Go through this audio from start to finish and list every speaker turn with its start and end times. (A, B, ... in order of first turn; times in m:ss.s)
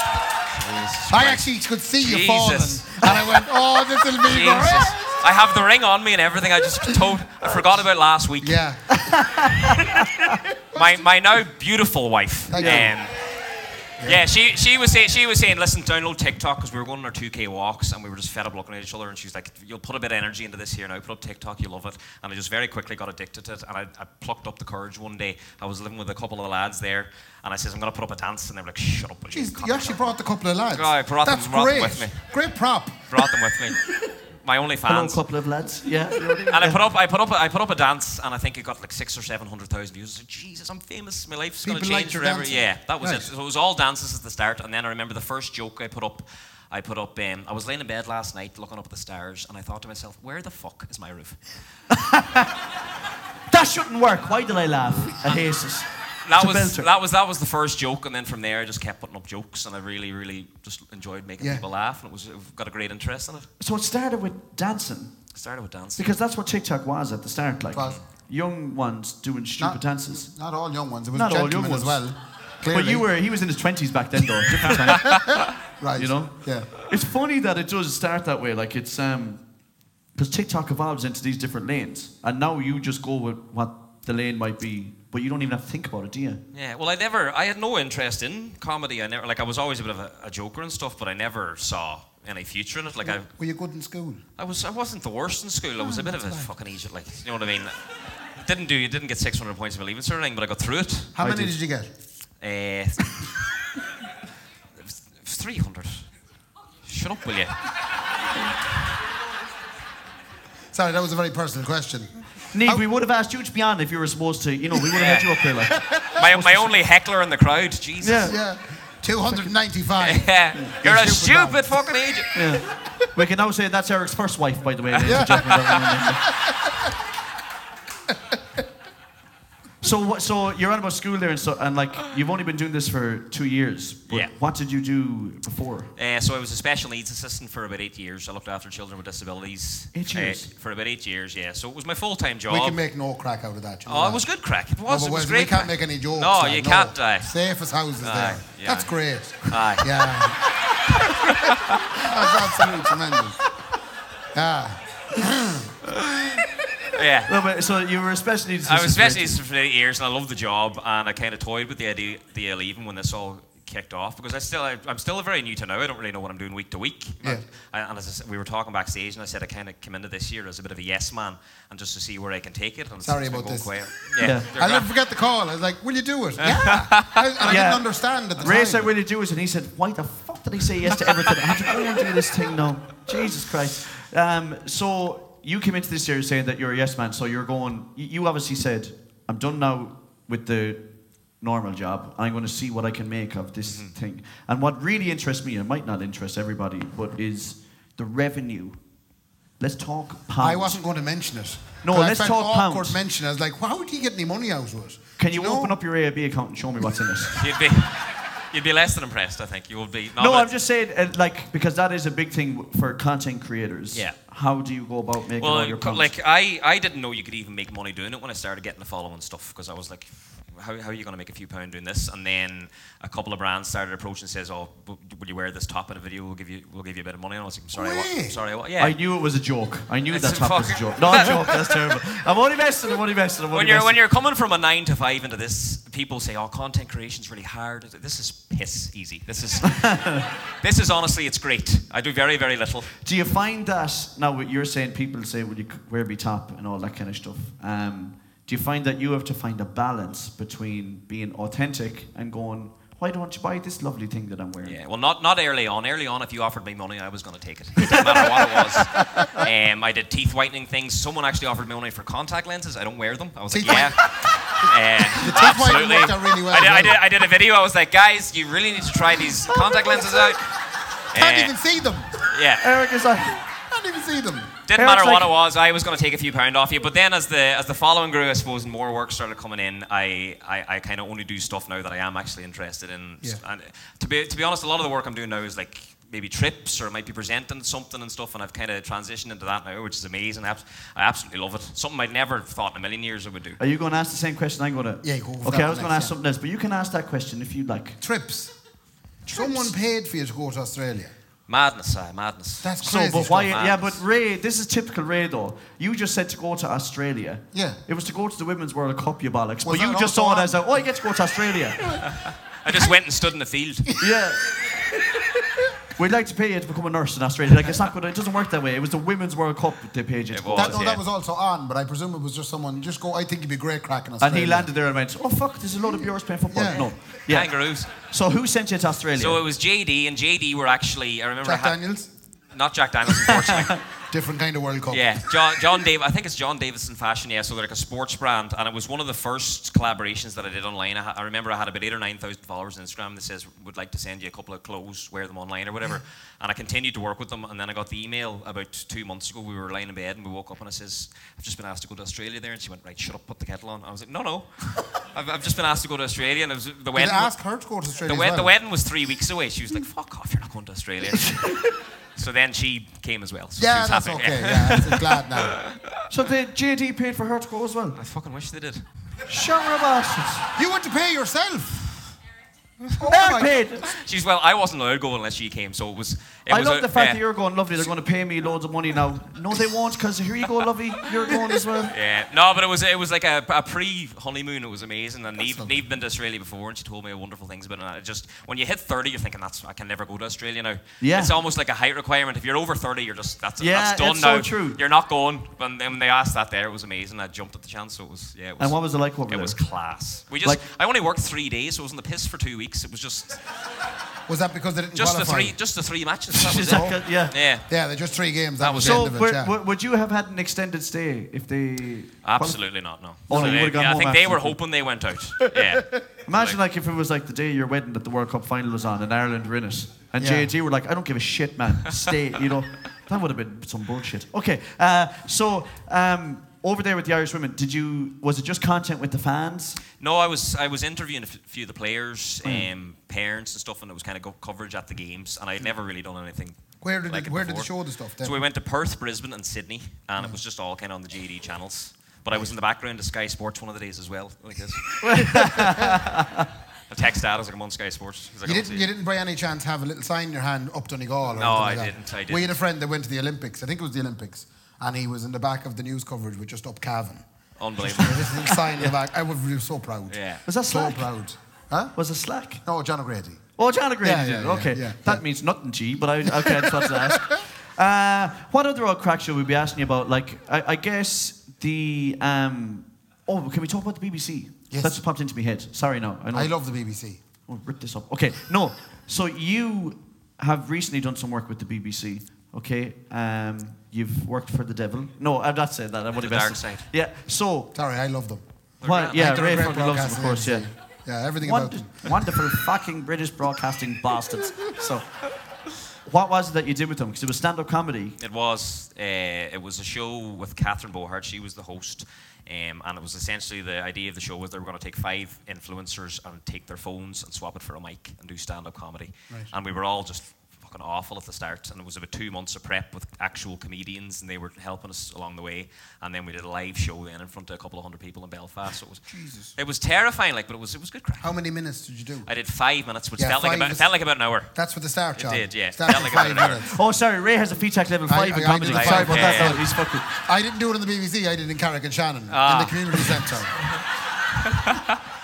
0:00.5-0:03.5 A
0:01.1-0:05.1 B
0:04.2-0:08.6 A
0:08.4-0:09.4 B
0:09.1-0:09.8 C
0:10.7-0:11.0 B
0:10.7-0:13.3 A
0:12.5-0:13.0 B
0:12.6-0:12.9 C
0:14.0-0:30.1 A
0:29.3-0:33.3 B
0:30.7-0:32.2 A
0:33.1-0:35.2 A
0:34.8-0:36.8 C
0:36.4-0:51.4 A
0:41.6-0:43.3 B
0:51.9-0:52.6 C
0:53.5-0:56.9 C
0:56.2-1:03.5 A
1:01.4-1:01.6 B
1:03.6-1:05.1 C
1:05.3-1:06.2 A
1:06.0-1:10.3 C
1:09.6-1:13.1 B
1:11.1-1:12.0 C
1:12.7-1:15.4 C
1:15.0-1:16.7 B
1:16.0-1:19.4 C
1:20.1-1:26.4 C
1:26.5-1:33.3 A
1:33.3-1:34.2 B
1:34.4-1:37.8 A
1:36.0-1:36.5 B
1:38.4-1:41.5 A
1:41.2-1:41.9 B
1:42.4-1:43.3 A
1:44.8-1:46.1 A
1:46.8-1:47.6 A
1:50.7-1:52.8 B
1:52.5-1:55.8 C
1:54.9-1:55.4 A
1:56.1-1:58.3 A
1:56.2-1:56.4 B
1:58.0-1:58.4 C
1:58.3-2:01.9 B
2:00.0-2:02.4 A
2:02.3-2:06.3 C
2:05.0-2:05.8 A
2:05.0-2:06.5 B
2:09.8-2:15.9 C
2:16.0-2:22.8 A
2:19.9-2:20.5 C
2:22.5-2:24.2 B
2:23.8-2:27.3 A
2:24.8-2:30.4 B
2:28.0-2:28.9 A
2:29.4-2:29.9 A
2:31.3-2:31.9 A
2:31.9-2:33.4 B
2:34.3-2:35.7 B
2:36.9-2:37.3 A
2:37.2-2:39.4 C
2:38.6-2:54.9 A
2:53.0-2:58.9 B
2:54.2-2:54.5 C
2:56.4-2:57.4 A
2:57.4-3:18.8 C
3:13.6-3:13.9 A
3:19.6-3:20.8 C
3:20.4-3:25.8 B
3:21.8-3:23.0 C
3:25.2-3:27.4 C
3:27.3-3:30.5 A
3:30.2-3:36.1 C
3:33.9-3:34.2 A
3:35.4-3:49.0 A
3:47.7-3:48.4 B
3:48.8-3:54.0 C
3:50.1-3:52.0 A
3:53.5-4:02.9 A
3:59.6-4:00.2 C
4:03.0-4:14.8 C
4:14.6-4:30.5 A
4:23.5-4:24.0 B
4:25.0-4:27.0 B
4:29.5-4:30.2 C
4:31.1-4:31.5 A
4:31.1-4:32.1 B
4:32.2-4:32.7 A
4:32.6-4:33.4 C
4:33.6-4:34.5 B
4:34.6-4:53.6 A
4:34.7-4:35.3 C
4:53.6-4:58.0 C
4:55.0-4:56.1 B
4:58.0-4:58.5 B
4:59.2-5:01.1 B
5:01.5-5:04.0 A
5:02.6-5:03.5 B
5:02.8-5:12.0 C
5:07.5-5:07.8 B
5:09.6-5:10.6 B
5:12.1-5:14.0 A
5:14.0-5:14.4 C
5:15.9-5:20.8 C
5:20.3-5:21.0 A
5:20.5-5:24.7 B
5:24.2-5:29.4 C
5:26.5-5:26.9 B
5:27.2-5:27.9 A
5:29.1-5:31.8 A
5:31.4-5:32.1 B
5:32.5-5:33.8 A
5:33.3-5:33.7 C
5:34.1-5:35.6 B
5:34.9-5:57.3 A
5:56.9-5:58.5 B
5:58.0-6:06.0 A
6:03.6-6:05.6 B
6:06.1-6:08.0 C
6:07.9-6:08.9 A
6:09.3-6:10.5 C
6:10.5-6:11.8 B
6:13.0-6:13.7 B
6:13.0-6:13.9 C
6:13.8-6:17.2 A
6:16.5-6:21.9 C
6:21.9-6:43.4 A
6:31.0-6:31.4 C
6:33.6-6:34.8 C
6:38.6-6:39.6 C
6:44.3-6:45.6 B
6:44.9-6:47.7 A
6:46.3-6:47.4 C
6:46.6-6:47.0 B
6:47.7-6:49.5 B
6:48.6-6:49.1 A
6:48.8-6:52.6 C
6:52.2-6:56.6 A
6:53.2-6:54.6 C
6:55.4-7:09.8 C
7:00.2-7:00.5 B
7:10.0-7:17.7 A
7:12.4-7:12.7 C
7:16.8-7:18.4 B
7:18.2-7:25.5 A
7:25.0-7:26.5 C
7:26.9-7:28.8 A
7:28.4-7:37.2 B
7:31.3-7:32.5 A
7:37.6-7:38.4 A
7:37.8-7:41.9 B
7:38.2-7:39.0 C
7:40.1-7:40.4 A
7:40.4-7:41.1 C
7:42.0-7:42.6 C
7:42.6-7:43.4 B
7:43.6-7:56.5 C
7:44.0-7:45.2 B
7:46.2-7:47.4 B
7:54.7-7:55.0 B
7:56.3-7:57.2 B
7:57.4-8:07.7 C
8:06.2-8:06.9 A
8:07.7-8:08.4 B
8:08.8-8:09.3 A
8:08.8-8:10.7 C
8:09.1-8:12.2 B
8:11.4-8:15.2 C
8:16.0-8:18.2 C
8:18.2-8:41.3 A
8:39.1-8:39.5 B
8:41.2-8:42.3 B
8:42.2-8:44.5 A
8:43.2-8:43.9 B
8:44.5-8:46.7 B
8:45.2-8:46.6 A
8:46.6-8:50.1 C
8:48.1-8:53.7 B
8:48.6-8:49.6 A
8:52.3-8:53.3 A
8:54.4-8:55.0 A